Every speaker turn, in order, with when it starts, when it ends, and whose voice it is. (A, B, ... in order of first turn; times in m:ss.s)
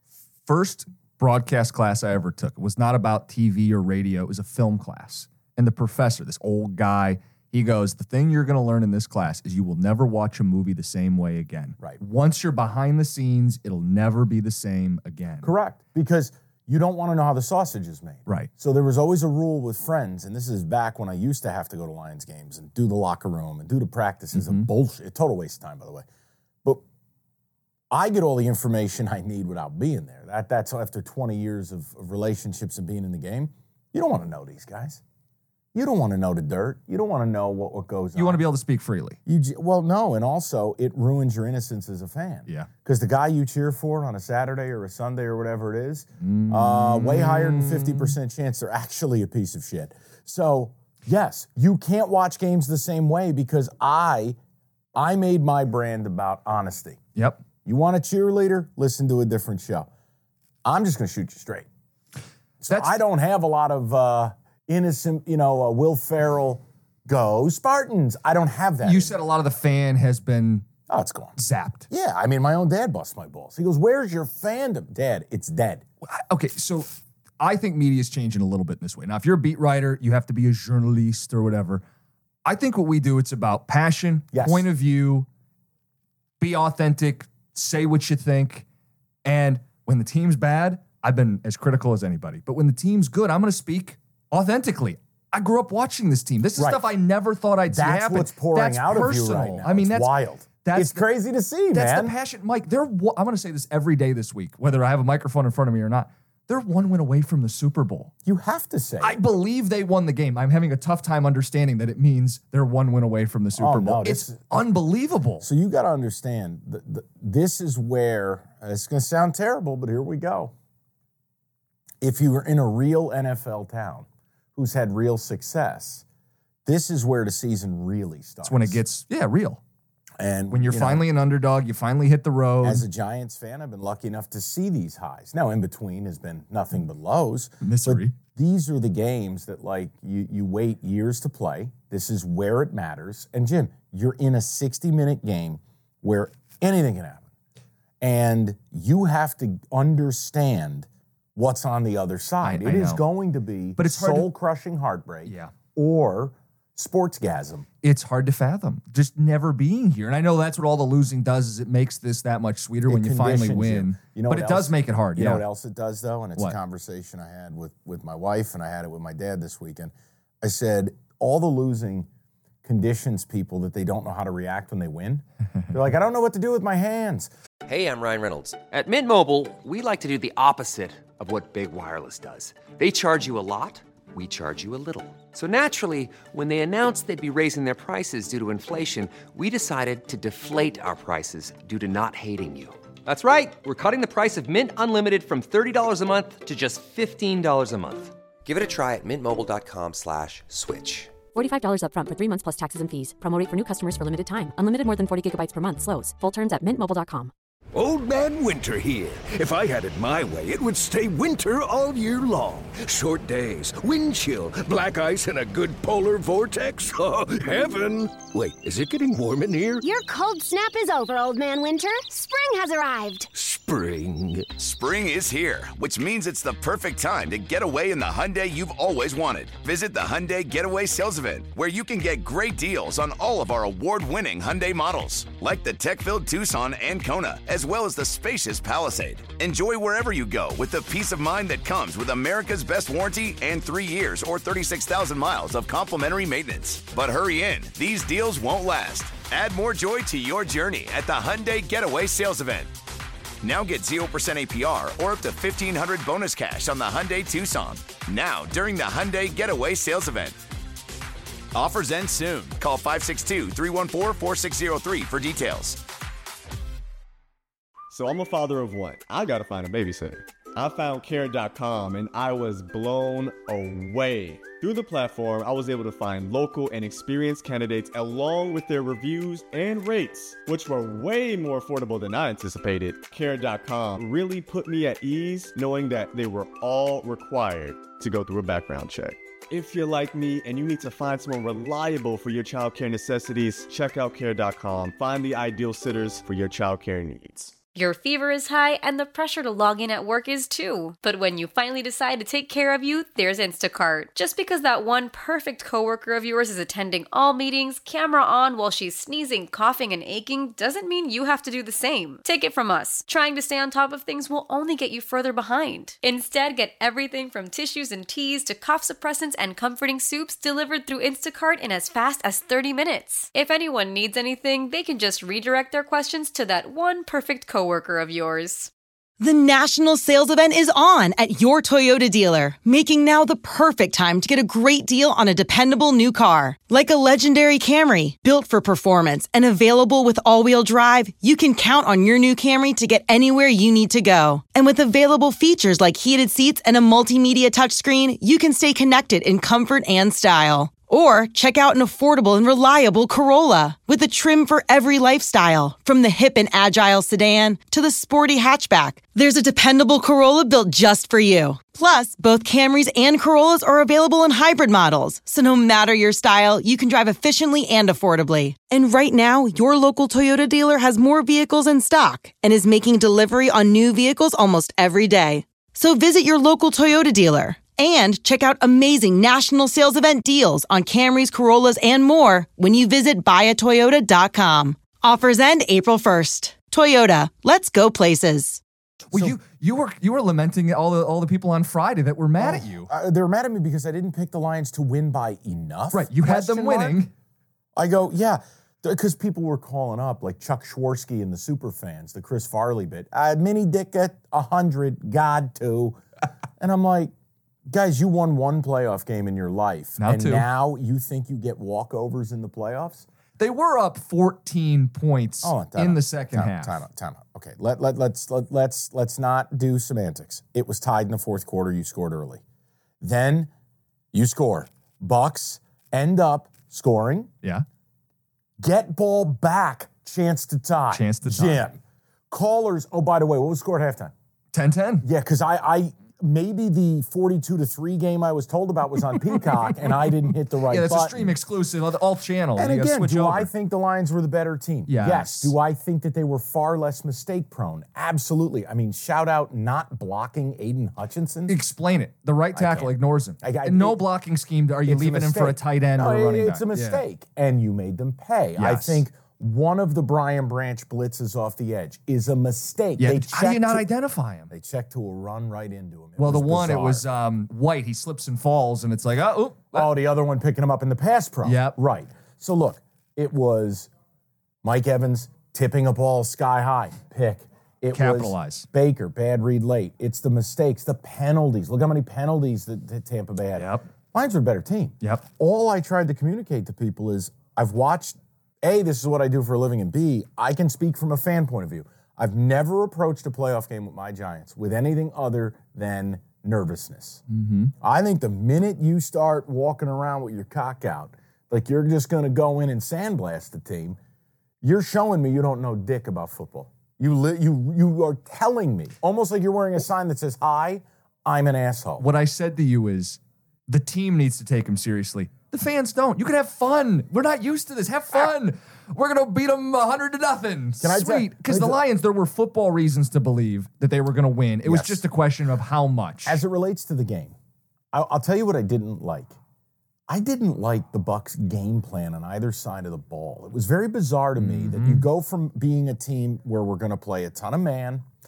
0:00.5-0:15.5 A
0:15.4-0:26.0 B
0:24.3-0:24.7 A
0:27.9-0:35.0 B
0:35.7-0:38.4 B
0:38.2-0:39.2 A
0:39.3-0:54.4 B
0:46.2-0:48.2 A
0:55.0-0:57.0 B
0:57.6-0:59.9 B
1:00.6-1:01.7 B
1:02.6-1:09.2 B
1:02.7-1:03.0 A
1:08.8-1:10.7 A
1:10.9-1:11.4 B
1:11.4-1:11.9 A
1:11.9-1:15.8 B
1:16.1-1:16.9 A
1:17.4-1:21.8 A
1:22.4-1:25.3 A
1:24.3-1:24.7 B
1:26.4-1:28.6 A
1:29.2-1:41.0 A
1:36.6-1:36.8 B
1:37.7-1:42.1 B
1:41.7-1:48.1 A
1:48.2-1:49.2 B
1:49.0-1:55.5 A
1:53.6-1:54.4 B
1:55.4-2:00.5 B
2:02.0-2:06.0 B
2:06.7-2:08.8 B
2:08.4-2:09.6 A
2:10.2-2:11.0 B
2:10.5-2:12.8 A
2:12.6-2:27.2 B
2:17.6-2:18.1 A
2:28.0-2:37.7 B
2:32.4-2:33.0 A
2:33.8-2:34.3 A
2:35.3-2:35.5 A
2:37.8-2:45.4 A
2:42.9-2:52.1 B
2:52.6-2:57.3 B
2:57.7-3:21.2 C
3:21.3-3:27.3 D
3:27.7-3:39.8 E
3:39.8-3:43.3 F
3:43.3-3:44.5 E
3:44.6-4:12.7 G
4:13.4-4:20.4 G
4:21.5-4:25.8 G
4:27.9-4:57.5 H
4:57.8-5:28.7 I
5:29.2-6:28.6 J
6:29.1-6:32.9 A
6:32.4-6:37.0 B
6:35.9-6:37.1 A
6:37.8-6:46.0 B
6:46.6-6:47.1 B
6:47.7-6:53.1 B
6:50.0-6:50.5 A
6:53.4-6:56.8 A
6:55.4-7:02.4 B
7:03.0-7:03.5 B
7:04.1-7:07.3 B
7:08.6-7:11.8 B
7:10.9-7:11.6 A
7:12.3-7:14.1 B
7:14.5-7:15.0 A
7:15.0-7:21.3 B
7:19.2-7:19.5 A
7:20.7-7:23.5 A
7:22.6-7:31.6 B
7:24.9-7:25.5 A
7:31.5-7:37.0 A
7:32.5-7:34.0 B
7:34.9-7:43.9 B
7:38.6-7:39.0 A
7:43.0-7:44.5 A
7:44.5-7:47.0 B
7:46.2-7:49.9 A
7:49.7-7:53.9 B
7:51.4-7:51.8 A
7:54.6-8:17.2 B
7:57.9-7:58.7 A
8:03.6-8:03.9 A
8:17.3-8:17.7 A
8:17.8-8:24.0 B
8:24.6-8:32.0 B
8:32.0-8:46.4 A
8:40.8-8:41.8 B
8:44.6-8:45.0 B
8:46.2-8:47.4 B
8:47.9-8:49.3 B
8:50.1-8:58.0 B
8:54.4-8:55.0 A